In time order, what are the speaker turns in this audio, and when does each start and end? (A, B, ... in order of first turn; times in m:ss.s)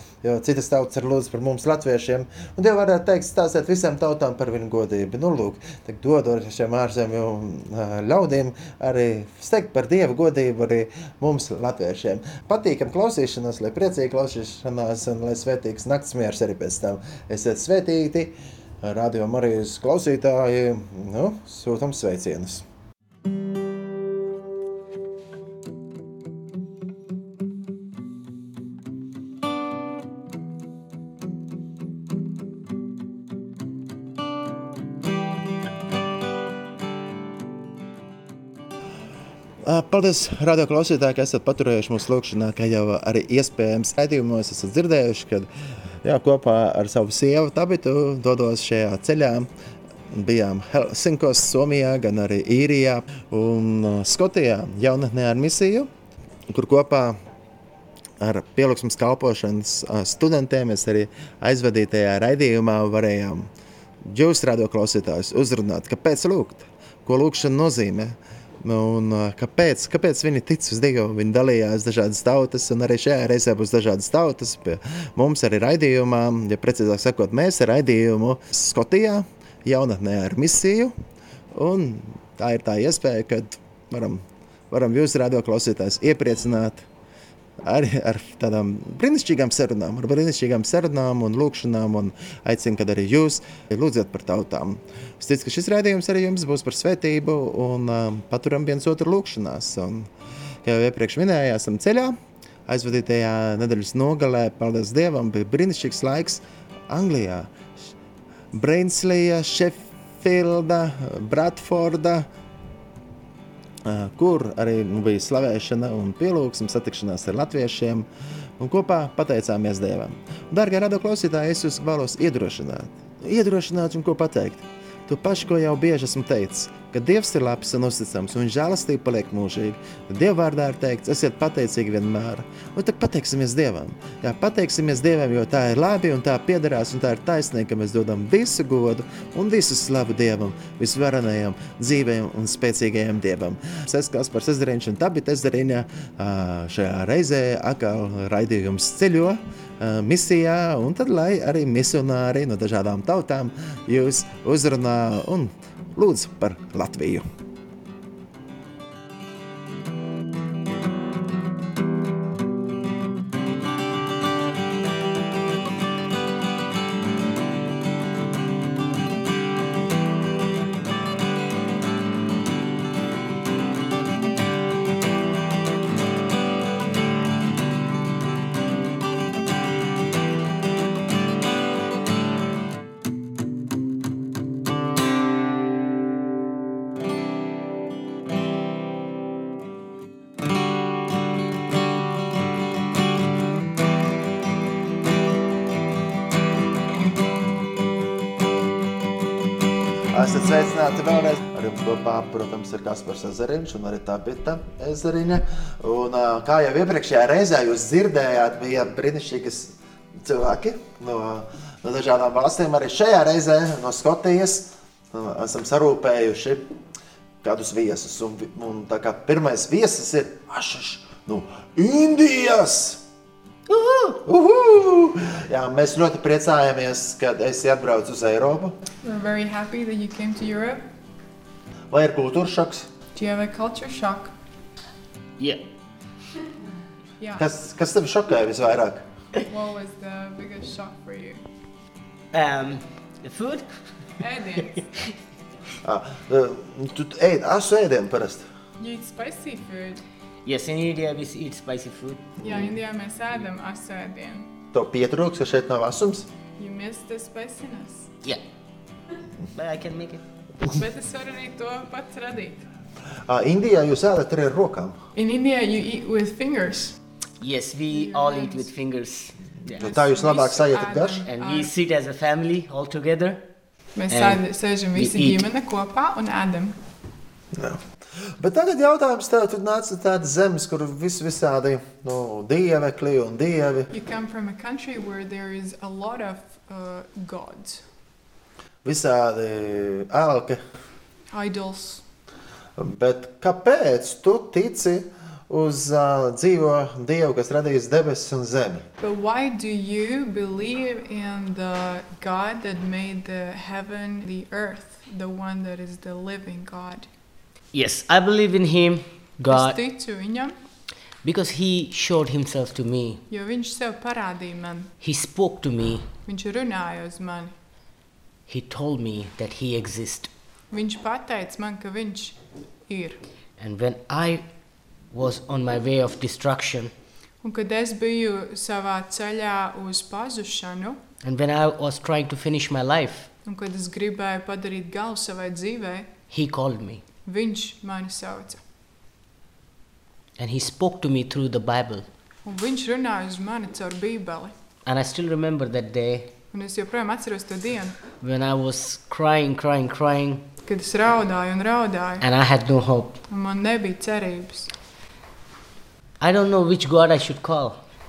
0:00.2-0:22.6 A
0:39.6-0:45.5 A
0:46.0-0:49.5 A
0:50.1-0:55.9 A
0:56.5-0:57.2 A
0:58.2-1:03.5 A
1:04.0-1:20.9 A
1:21.5-1:26.8 A
1:27.6-1:40.1 A
1:40.6-1:47.5 A
1:48.5-1:52.3 A
1:53.8-1:58.1 A
1:58.6-2:37.2 A
3:20.1-3:36.6 A
3:37.4-3:43.0 A
3:43.7-3:44.2 B
3:44.2-3:48.8 A
3:49.0-3:50.8 C
3:51.9-3:52.9 A
3:53.2-3:54.3 C
3:55.4-3:55.6 B
3:57.2-3:57.5 C
3:57.4-3:59.1 A
3:59.4-4:01.4 C
4:02.3-4:03.7 B
4:04.2-4:04.8 C
4:05.8-4:08.5 A
4:08.8-4:10.0 C
4:10.4-4:12.4 B
4:12.4-4:14.5 C
4:14.7-4:16.3 A
4:16.6-4:18.1 C
4:19.6-4:20.2 B
4:20.7-4:22.6 C
4:23.3-4:25.0 A
4:25.2-4:27.0 C
4:27.4-4:29.8 B
4:28.1-4:28.6 C
4:29.8-4:31.7 C
4:29.8-4:31.3 A
4:31.3-4:33.5 B
4:34.0-4:36.8 C
4:34.1-4:34.4 B
4:35.0-4:35.4 B
4:37.5-4:43.9 A
4:43.9-4:47.8 C
4:48.8-4:50.6 A
4:51.3-4:52.0 C
4:52.8-4:58.8 A
4:59.0-5:07.1 C
5:07.7-5:09.8 B
5:09.5-5:10.6 C
5:11.2-5:13.2 B
5:13.3-5:14.9 C
5:15.0-5:16.1 B
5:16.3-5:17.5 C
5:18.5-5:20.3 B
5:20.7-5:23.2 C
5:23.6-5:24.4 B
5:25.1-5:26.9 B
5:27.4-5:31.0 C
5:31.2-5:33.3 B
5:33.4-5:36.1 C
5:36.3-5:37.0 B
5:37.3-5:38.6 C
5:40.4-5:42.1 B
5:42.4-5:44.5 C
5:44.9-5:46.3 B
5:46.5-5:48.0 C
5:48.2-5:50.5 B
5:50.6-5:52.2 C
5:52.2-5:53.2 B
5:53.3-5:54.7 C
5:56.2-5:57.8 B